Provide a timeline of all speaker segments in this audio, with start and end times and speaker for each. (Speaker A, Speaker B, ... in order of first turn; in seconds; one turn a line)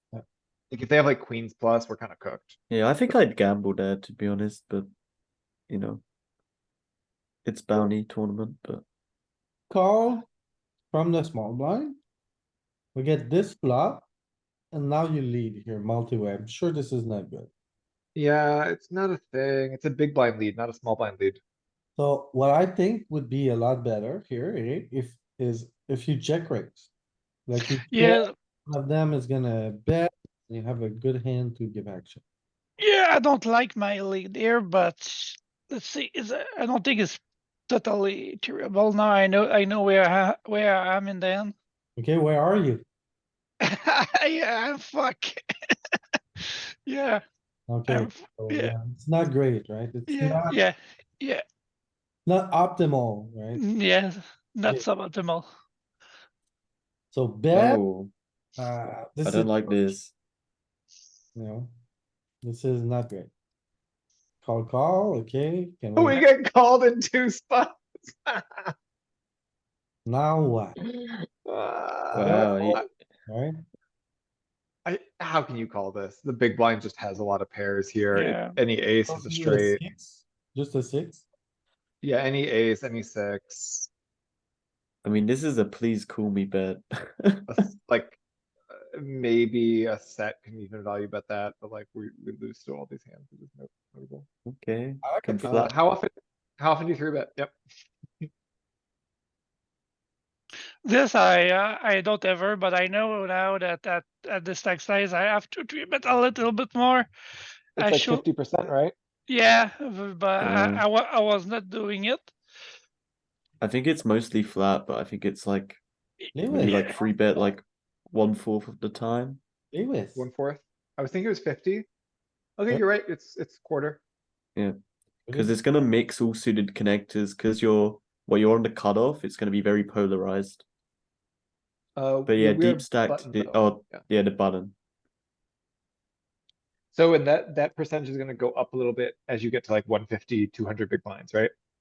Speaker A: 0.7-2.6
Speaker B: 2.7-4.9
Speaker B: 5.7-6.0
Speaker B: 7.5-8.8
Speaker C: 9.7-10.3
Speaker C: 10.9-12.0
Speaker C: 12.9-14.1
Speaker C: 14.7-17.5
Speaker A: 18.2-21.4
Speaker C: 22.0-26.9
Speaker C: 27.5-32.2
Speaker D: 27.6-28.3
Speaker D: 32.8-41.5
Speaker C: 42.0-42.8
Speaker D: 43.6-45.8
Speaker D: 46.4-47.2
Speaker C: 47.7-50.6
Speaker D: 47.9-48.8
Speaker D: 50.1-51.4
Speaker C: 52.3-53.6
Speaker D: 53.6-55.5
Speaker C: 57.1-57.8
Speaker B: 57.5-58.1
Speaker C: 58.6-60.0
Speaker B: 59.2-60.1
Speaker C: 61.4-61.7
Speaker C: 62.4-63.3
Speaker C: 64.4-66.2
Speaker A: 66.0-68.7
Speaker C: 70.1-70.8
Speaker A: 70.8-72.8
Speaker C: 72.1-73.6
Speaker B: 72.2-72.9
Speaker A: 74.8-79.8
Speaker D: 78.1-78.6
Speaker C: 79.1-81.3
Speaker A: 82.0-83.9
Speaker B: 85.0-87.5
Speaker A: 87.5-88.2
Speaker A: 88.7-94.3
Speaker B: 94.5-95.8
Speaker C: 95.0-95.7
Speaker A: 95.4-97.5
Speaker D: 100.8-107.1
Speaker A: 107.8-108.9
Speaker D: 107.8-108.2
Speaker D: 109.3-112.3
Speaker B: 110.4-110.9
Speaker B: 113.6-115.8
Speaker C: 116.3-117.5
Speaker B: 116.5-119.4
Speaker D: 116.6-117.0
Speaker C: 119.7-120.3
Speaker A: 120.2-121.9
Speaker A: 122.6-124.0
Speaker C: 125.3-125.5
Speaker B: 125.3-130.7
Speaker A: 132.0-134.1
Speaker B: 132.3-134.7
Speaker A: 136.9-141.5